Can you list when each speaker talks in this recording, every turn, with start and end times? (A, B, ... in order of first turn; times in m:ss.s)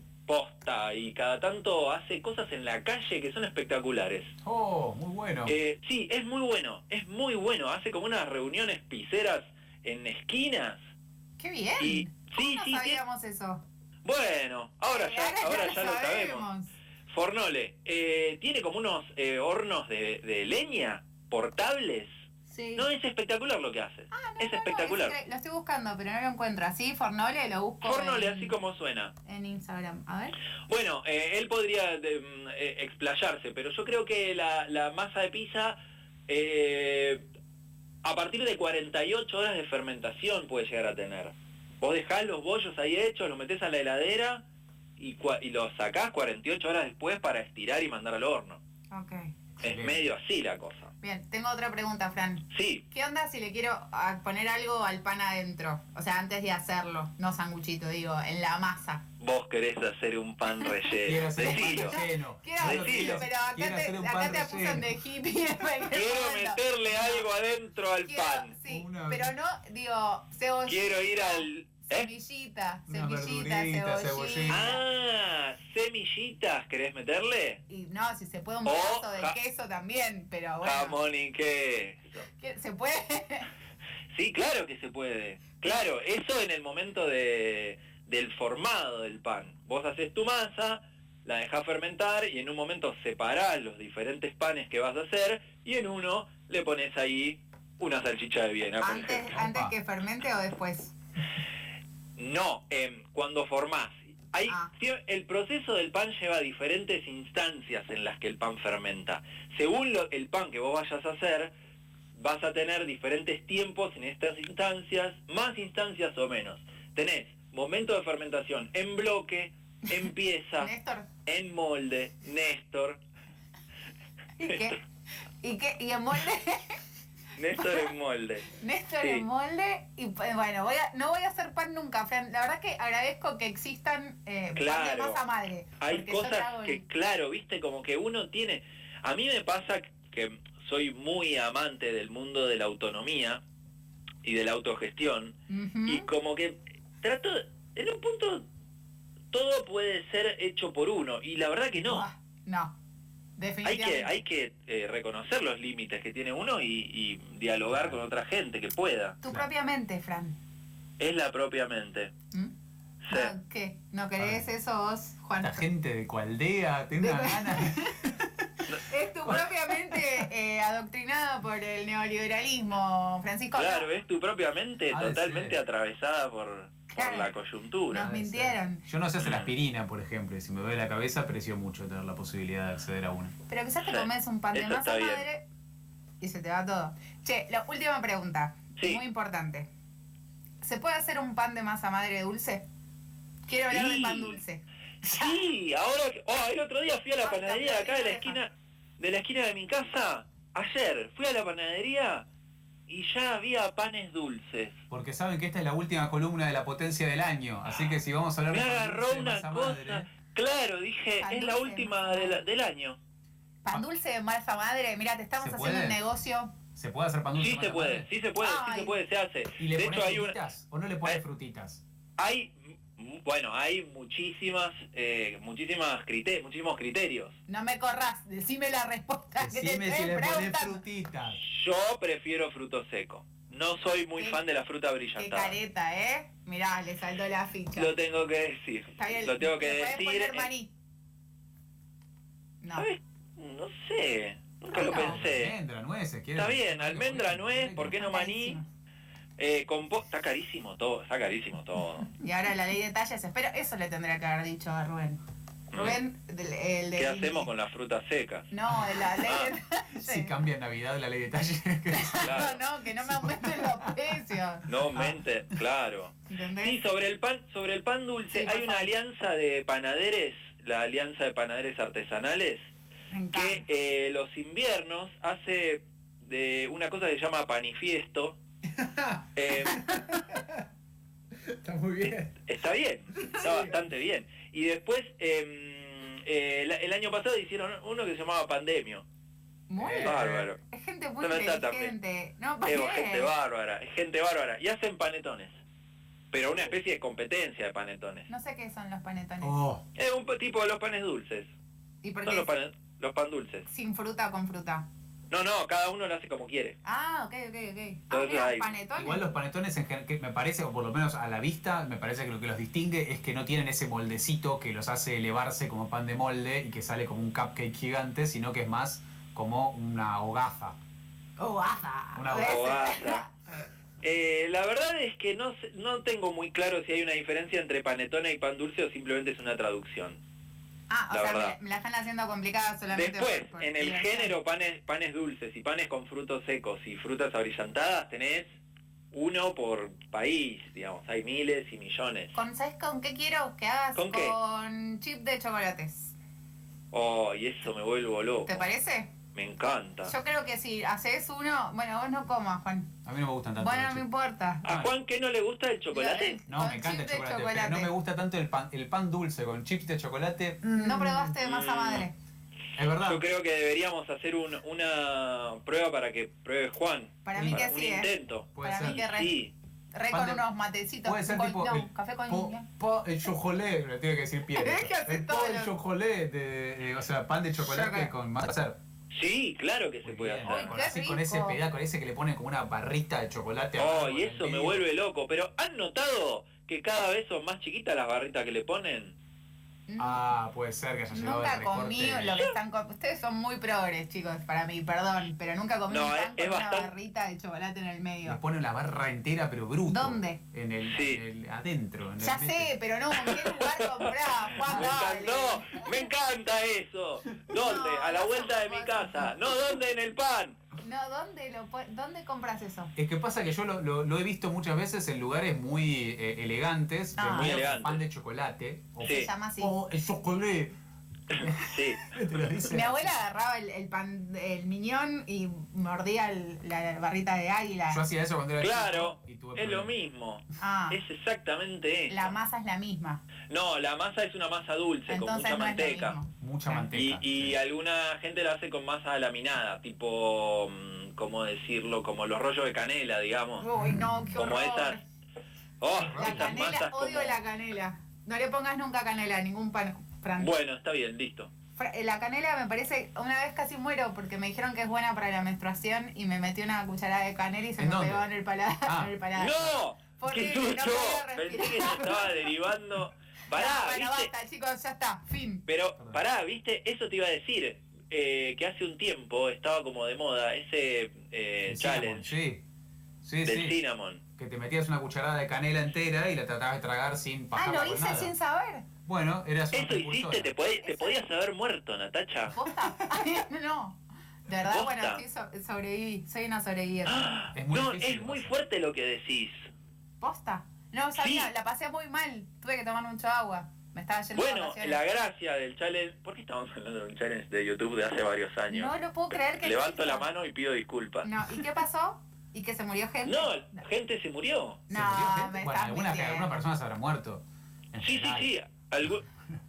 0:00.3-0:04.3 A
0:04.4-0:05.6 B
0:05.5-0:10.8 A
0:11.4-0:13.6 C
0:11.8-0:13.0 A
0:14.0-0:16.5 A
0:14.9-0:16.7 C
0:17.1-0:22.1 A
0:22.5-0:22.9 C
0:22.8-0:25.2 A
0:24.1-0:28.5 C
0:27.8-0:29.1 A
0:29.2-0:30.4 C
0:30.7-0:35.8 A
0:36.3-0:37.2 A
0:38.0-0:44.4 A
0:45.0-0:48.6 A
0:48.9-0:49.3 C
0:49.6-0:50.9 A
0:49.6-0:50.0 B
0:51.0-0:59.0 C
0:52.5-0:52.8 A
0:59.2-1:02.0 A
1:01.0-1:04.9 B
1:01.4-1:07.3 C
1:02.6-1:03.2 A
1:05.9-1:08.5 A
1:08.1-1:14.8 C
1:08.7-1:09.3 B
1:10.7-1:12.1 A
1:12.9-1:14.8 B
1:14.5-1:17.6 A
1:17.7-1:21.0 C
1:18.6-1:19.4 A
1:20.6-1:22.2 A
1:22.3-1:23.5 C
1:24.1-1:39.3 A
1:38.8-1:40.9 C
1:39.3-1:39.7 B
1:42.2-1:51.5 A
1:52.2-2:00.7 A
2:00.6-2:01.1 C
2:01.2-2:03.0 A
2:04.4-2:04.8 C
2:05.4-2:06.8 C
2:07.4-2:09.2 A
2:07.6-2:07.9 C
2:08.6-2:16.8 C
2:14.6-2:15.2 A
2:15.8-2:23.4 A
2:24.2-2:28.4 A
2:25.5-2:26.1 C
2:29.3-2:32.1 A
2:31.8-2:32.8 C
2:33.4-2:34.1 C
2:33.6-2:39.2 A
2:39.2-2:40.4 C
2:41.0-2:42.1 A
2:43.0-2:43.3 A
2:43.1-2:45.6 C
2:44.2-2:44.4 B
2:45.4-2:48.3 B
2:47.0-2:48.0 C
2:48.7-2:53.9 C
2:49.3-2:50.0 B
2:53.6-2:58.1 A
2:54.9-2:55.6 B
2:56.9-2:57.3 C
2:57.9-2:58.8 C
2:58.0-3:03.3 B
2:59.2-2:59.5 A
3:03.5-3:05.4 C
3:03.8-3:05.2 A
3:06.2-3:09.7 C
3:10.6-3:12.6 C
3:13.5-3:15.4 C
3:13.7-3:14.4 A
3:15.1-3:22.2 A
3:17.2-3:18.4 C
3:22.9-3:24.8 A
3:24.9-3:30.1 B
3:28.5-3:33.0 A
3:31.2-3:32.4 C
3:33.6-3:36.5 C
3:35.4-3:36.0 B
3:36.8-3:38.1 B
3:37.4-3:40.4 A
3:38.4-3:39.0 C
3:39.6-3:41.8 B
3:42.2-3:47.4 A
3:47.5-3:50.8 C
3:49.4-3:51.4 B
3:51.4-3:55.6 A
3:55.2-3:57.9 C
3:57.8-4:00.5 A
3:59.0-4:00.7 C
4:02.6-4:02.9 C
4:02.8-4:05.6 A
4:04.7-4:05.2 C
4:04.7-4:08.0 B
4:06.4-4:08.6 A
4:08.0-4:08.7 C
4:09.4-4:12.1 A
4:12.2-4:15.2 C
4:15.7-4:16.0 A
4:15.8-4:17.5 C
4:17.0-4:18.5 A
4:18.5-4:20.4 C
4:19.2-4:19.5 A
4:20.0-4:22.5 B
4:21.9-4:24.7 C
4:22.2-4:22.6 A
4:23.0-4:24.0 B
4:24.7-4:32.6 A
4:26.3-4:26.8 C
4:28.3-4:28.9 C
4:33.1-4:33.6 C
4:33.3-4:38.4 A
4:38.8-4:40.6 B
4:39.4-4:39.8 A
4:41.4-4:42.3 B
4:42.0-4:49.0 A
4:43.2-4:43.7 B
4:49.7-4:53.3 C
4:49.8-4:50.5 B
4:50.0-4:50.6 A
4:51.2-4:51.9 A
4:52.6-4:55.5 A
4:56.3-4:58.3 A
4:58.3-4:59.6 C
4:59.4-4:59.8 B
5:00.0-5:01.5 A
5:02.0-5:02.5 C
5:02.2-5:03.7 A
5:03.7-5:04.8 C
5:05.3-5:06.8 A
5:06.8-5:09.2 C
5:08.1-5:08.7 A
5:09.0-5:20.8 B
5:21.4-5:23.7 C
5:22.2-5:22.9 B
5:22.4-5:23.2 A
5:24.0-5:30.2 A
5:30.9-5:34.3 C
5:31.1-5:31.6 A
5:33.0-5:38.5 A
5:39.1-5:42.4 A
5:42.3-5:46.1 C
5:44.0-5:44.4 A
5:46.9-5:48.7 A
5:48.4-5:49.1 C
5:49.3-5:50.1 A
5:50.0-5:52.9 C
5:53.0-5:54.0 B
5:53.6-5:54.7 C
5:54.6-5:54.9 B
5:54.6-5:56.4 A
5:55.9-5:57.9 C
5:56.5-6:01.4 B
6:00.6-6:02.1 C
6:01.4-6:02.1 A
6:02.8-6:03.2 B
6:03.0-6:09.5 A
6:07.2-6:09.4 C
6:07.4-6:07.7 B
6:08.6-6:09.1 B
6:09.9-6:12.7 C
6:10.1-6:10.4 B
6:11.0-6:18.8 B
6:14.5-6:15.7 C
6:17.6-6:18.1 C
6:19.1-6:20.8 A
6:20.0-6:24.8 B
6:20.5-6:21.6 C
6:23.8-6:29.2 A
6:29.9-6:30.3 C
6:30.0-6:32.4 B
6:31.1-6:38.4 C
6:35.9-6:36.9 A
6:38.2-6:42.8 B
6:39.9-6:40.4 C
6:40.8-6:41.2 A
6:42.2-6:46.1 C
6:43.3-6:50.6 A
6:47.5-6:49.4 C
6:50.8-6:52.9 C
6:53.0-7:00.7 B
6:57.2-6:57.6 C
6:57.3-6:58.0 A
6:59.0-6:59.3 A
6:59.0-6:59.8 C
7:01.3-7:02.1 A
7:01.4-7:03.1 B
7:02.7-7:08.0 C
7:07.9-7:09.9 B
7:08.6-7:12.3 A
7:10.6-7:11.0 C
7:12.1-7:13.2 C
7:13.5-7:16.2 A
7:15.1-7:16.9 C
7:16.4-7:17.6 B
7:16.9-7:23.7 A
7:23.6-7:25.0 C
7:23.8-7:24.3 B
7:24.4-7:25.0 A
7:25.8-7:27.4 A
7:26.0-7:26.6 B
7:26.2-7:30.5 C
7:30.4-7:31.5 A
7:31.8-7:42.4 C
7:37.8-7:38.3 B
7:38.8-7:39.2 B
7:39.4-7:44.3 A
7:43.5-7:45.6 C
7:45.7-7:52.2 A
7:51.7-7:52.6 B
7:53.2-7:53.8 B
7:53.4-7:54.2 A
7:54.4-7:58.3 B
7:57.5-7:58.9 C
7:59.1-8:00.5 B
7:59.7-8:02.6 A
8:00.8-8:01.2 C
8:02.5-8:07.3 C
8:04.6-8:05.2 A
8:07.1-8:09.7 A
8:07.6-8:08.6 B
8:10.2-8:15.0 C
8:11.2-8:11.5 A
8:14.3-8:19.0 A
8:18.7-8:20.3 C
8:19.5-8:21.3 A
8:21.2-8:23.8 C
8:23.2-8:24.8 A
8:24.9-8:26.6 C
8:24.9-8:28.5 B
8:28.0-8:29.2 A